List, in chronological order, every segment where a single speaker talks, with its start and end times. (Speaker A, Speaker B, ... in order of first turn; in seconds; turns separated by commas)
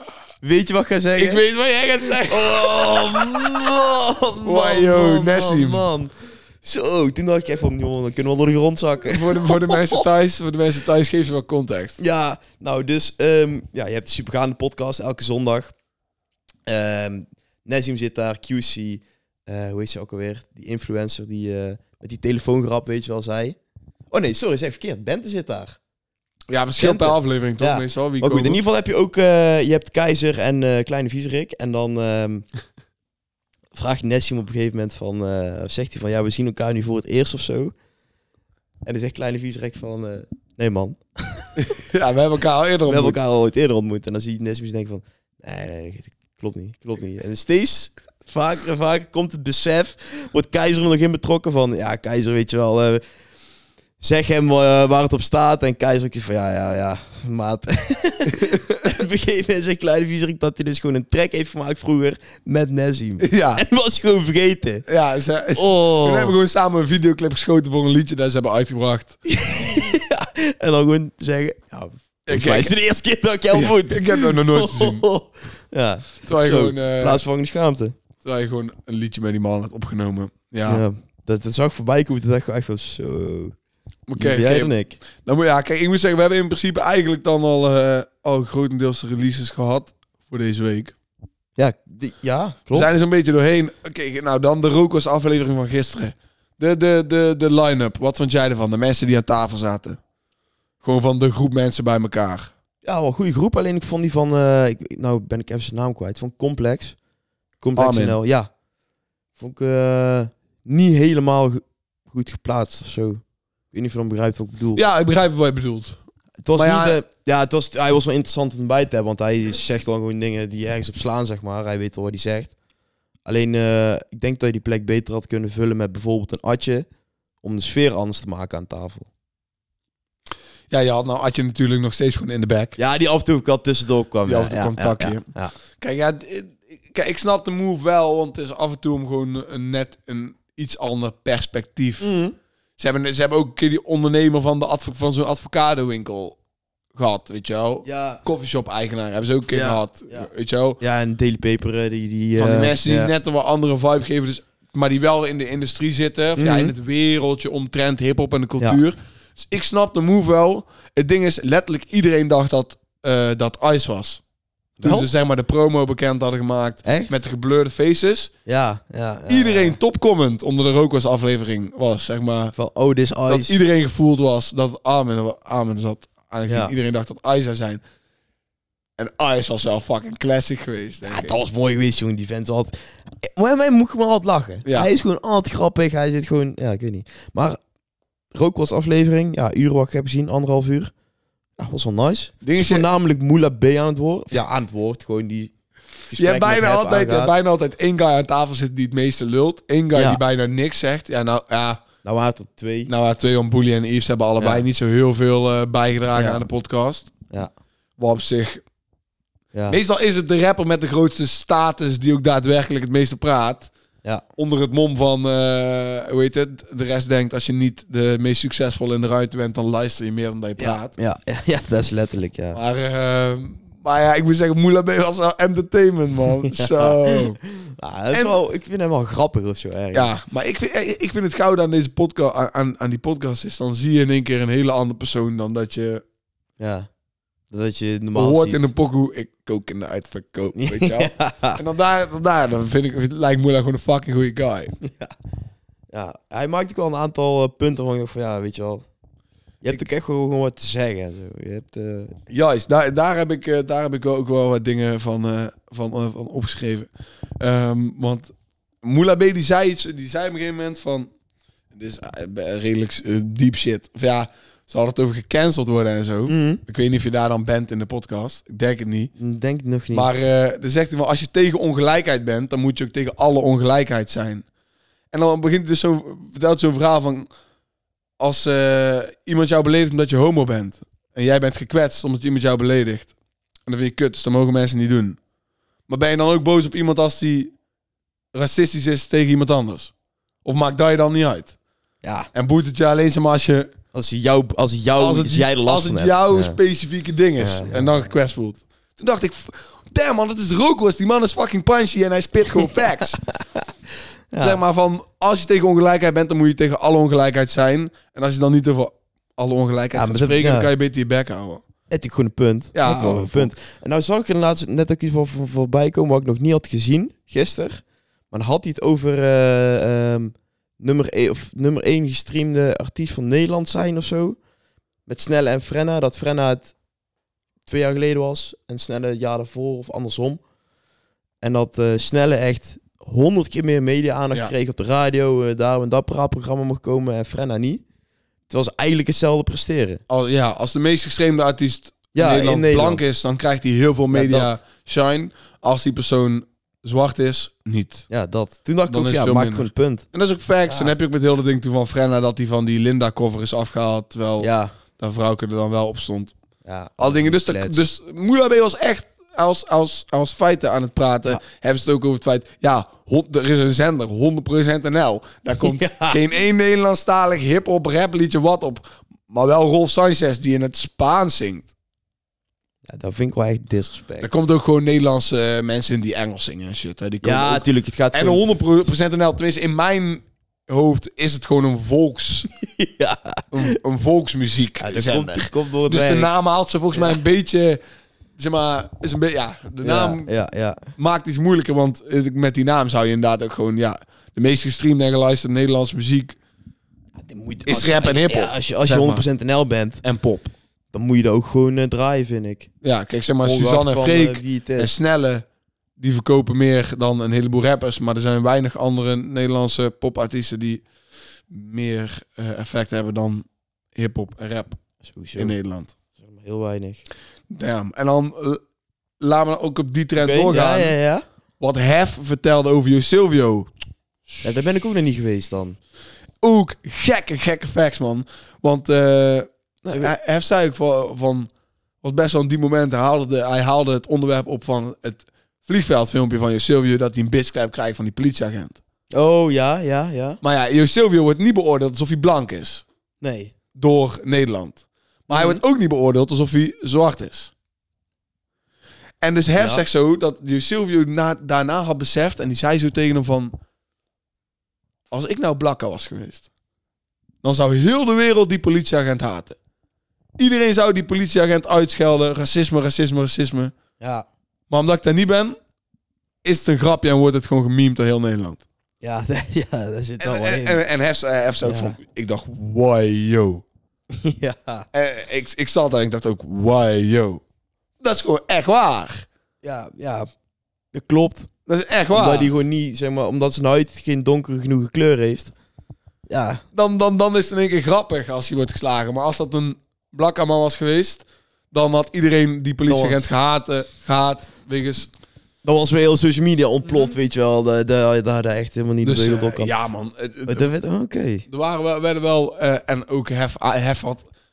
Speaker A: 0.4-1.4, Speaker B: 1.2-3.5, Speaker A: 2.2-10.0, Speaker B: 4.4-5.9, Speaker B: 9.1-12.0, Speaker A: 12.0-15.7, Speaker A: 16.7-23.6, Speaker A: 24.1-25.8, Speaker B: 26.5-28.6, Speaker A: 26.8-32.5, Speaker A: 33.7-37.7, Speaker A: 38.9-41.5, Speaker B: 41.6-43.2, Speaker A: 42.9-53.0, Speaker A: 54.0-64.9, Speaker B: 58.3-58.8, Speaker B: 63.2-63.6, Speaker B: 64.9-69.2, Speaker A: 65.5-66.3, Speaker A: 69.3-78.0, Speaker B: 72.3-72.7, Speaker B: 73.5-75.1, Speaker B: 76.2-77.2, Speaker B: 78.2-80.8, Speaker A: 80.7-83.6, Speaker B: 84.1-91.0, Speaker A: 84.2-85.0, Speaker A: 91.6-92.9, Speaker B: 92.7-100.0, Speaker B: 100.8-102.5, Speaker A: 102.8-107.0, Speaker A: 107.6-108.5, Speaker B: 107.8-108.2, Speaker A: 109.4-114.8, Speaker B: 114.8-116.0, Speaker A: 116.4-122.5, Speaker B: 116.5-117.0, Speaker A: 123.2-126.9, Speaker A: 127.4-129.1, Speaker B: 130.7-132.8, Speaker A: 132.8-135.5, Speaker B: 134.3-142.1, Speaker A: 142.0-142.4, Speaker B: 142.8-146.4, Speaker B: 146.9-150.8, Speaker A: 147.8-148.2, Speaker A: 149.5-153.1, Speaker B: 152.4-164.2, Speaker A: 156.4-156.7, Speaker A: 164.8-165.1, Speaker B: 164.8-168.3, Speaker A: 166.8-167.1, Speaker A: 168.5-169.8, Speaker B: 169.3-172.6, Speaker A: 172.6-173.6, Speaker B: 173.3-177.8, Speaker A: 176.5-176.7, Speaker B: 179.0-181.4, Speaker A: 181.0-187.6, Speaker B: 184.7-184.9, Speaker A: 188.3-190.9, Speaker A: 191.6-195.5, Speaker B: 192.4-192.9, Speaker A: 196.1-197.3, Speaker B: 196.1-201.8, Speaker A: 199.9-200.2, Speaker A: 202.0-202.9, Speaker B: 202.9-207.1, Speaker A: 204.4-204.6, Speaker A: 206.1-206.4, Speaker B: 208.0-208.6, Speaker A: 209.5-209.8, Speaker B: 209.7-213.7, Speaker B: 214.4-220.9, Speaker A: 220.6-222.6, Speaker B: 222.5-227.4, Speaker A: 226.5-230.1, Speaker B: 229.9-236.0, Speaker A: 236.6-236.9, Speaker A: 237.5-238.7, Speaker B: 238.2-244.8, Speaker A: 240.6-241.6, Speaker A: 244.8-245.1, Speaker A: 245.9-248.8, Speaker A: 249.6-252.2, Speaker B: 252.3-256.9, Speaker B: 257.4-261.1, Speaker B: 261.7-269.1, Speaker A: 266.3-266.6, Speaker A: 269.2-270.1, Speaker B: 269.9-274.5, Speaker B: 275.1-277.3, Speaker B: 278.2-283.1, Speaker B: 283.7-285.2, Speaker B: 285.9-287.5, Speaker B: 288.3-289.9, Speaker B: 290.4-291.6, Speaker A: 292.0-292.3, Speaker B: 292.3-293.7, Speaker A: 293.9-296.6, Speaker B: 295.0-303.2, Speaker A: 297.4-298.1, Speaker A: 304.3-304.6, Speaker B: 304.4-311.6, Speaker A: 309.9-310.7, Speaker A: 311.9-324.4, Speaker B: 312.7-313.5, Speaker A: 325.1-326.7, Speaker A: 327.7-330.4, Speaker A: 331.4-337.8, Speaker A: 338.5-340.0, Speaker B: 340.1-348.1, Speaker A: 342.1-343.0, Speaker A: 344.1-344.6, Speaker A: 348.1-350.1, Speaker B: 348.9-356.3, Speaker A: 350.7-350.9, Speaker A: 354.4-354.7, Speaker A: 356.6-357.8, Speaker B: 357.0-371.7, Speaker A: 365.6-366.2, Speaker A: 372.9-374.3, Speaker B: 374.2-382.5, Speaker A: 377.2-378.4, Speaker A: 382.6-383.7, Speaker B: 383.5-387.8, Speaker A: 384.8-386.3, Speaker A: 386.9-387.2, Speaker B: 388.4-390.3, Speaker A: 389.8-390.9, Speaker B: 391.0-396.4, Speaker A: 397.1-400.0, Speaker B: 397.7-399.2, Speaker B: 400.0-400.5, Speaker A: 400.9-402.7, Speaker B: 402.8-405.4, Speaker A: 403.4-404.9, Speaker B: 406.0-410.9, Speaker B: 411.5-414.8, Speaker A: 415.0-415.6, Speaker B: 415.4-415.9, Speaker A: 416.2-417.0, Speaker B: 417.5-418.6, Speaker B: 419.2-421.0, Speaker A: 420.2-421.2, Speaker B: 421.6-423.7, Speaker A: 424.4-425.8, Speaker B: 426.4-431.5, Speaker A: 429.8-430.1, Speaker B: 432.0-438.8, Speaker A: 439.1-440.4, Speaker B: 440.4-442.9, Speaker A: 443.2-443.5, Speaker B: 443.8-447.5, Speaker A: 445.3-445.6, Speaker B: 449.2-453.5, Speaker A: 449.6-449.9, Speaker B: 455.1-456.5, Speaker B: 457.4-459.6, Speaker B: 460.4-463.8, Speaker A: 464.0-464.3, Speaker B: 464.7-465.6, Speaker B: 466.4-468.6, Speaker A: 469.0-470.8, Speaker B: 470.2-473.6, Speaker A: 471.6-472.0, Speaker A: 474.1-474.9, Speaker B: 474.9-477.4, Speaker B: 478.0-479.3, Speaker A: 479.6-480.3, Speaker A: 480.9-481.5, Speaker B: 481.7-482.5, Speaker A: 482.1-485.5, Speaker A: 486.3-486.6, Speaker B: 486.8-495.1, Speaker A: 492.9-493.3, Speaker A: 495.6-499.7, Speaker B: 499.0-500.7, Speaker A: 500.5-501.4, Speaker B: 501.5-504.3